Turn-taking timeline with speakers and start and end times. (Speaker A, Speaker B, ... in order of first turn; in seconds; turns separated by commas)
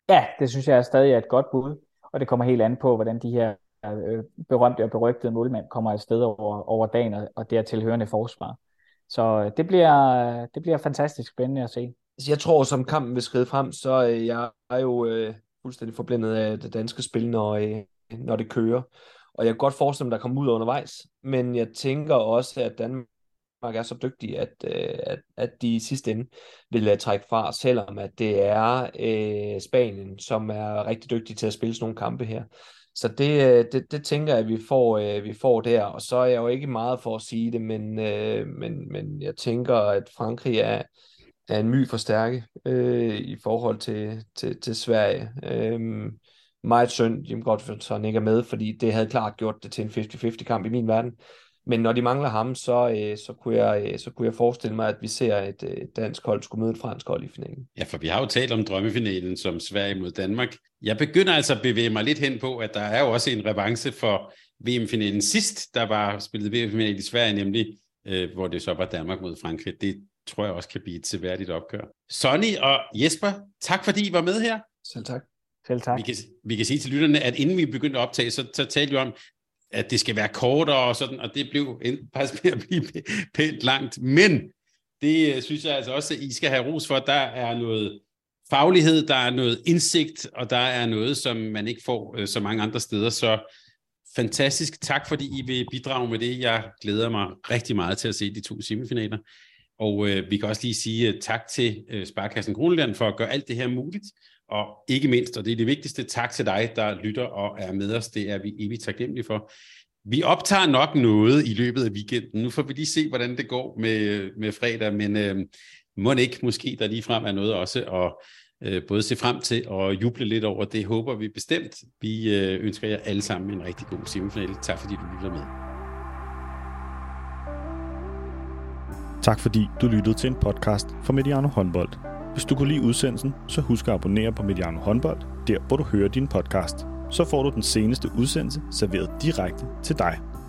Speaker A: 0.1-11.9, Speaker B: 12.2-23.1, Speaker B: 23.6-40.9, Speaker B: 41.5-57.7, Speaker C: 57.8-74.6, Speaker B: 74.8-75.3, Speaker A: 75.7-76.0, Speaker C: 75.9-79.1, Speaker C: 79.7-93.4, Speaker C: 94.1-99.2, Speaker C: 99.8-109.5, Speaker C: 110.0-125.5, Speaker D: 129.2-140.2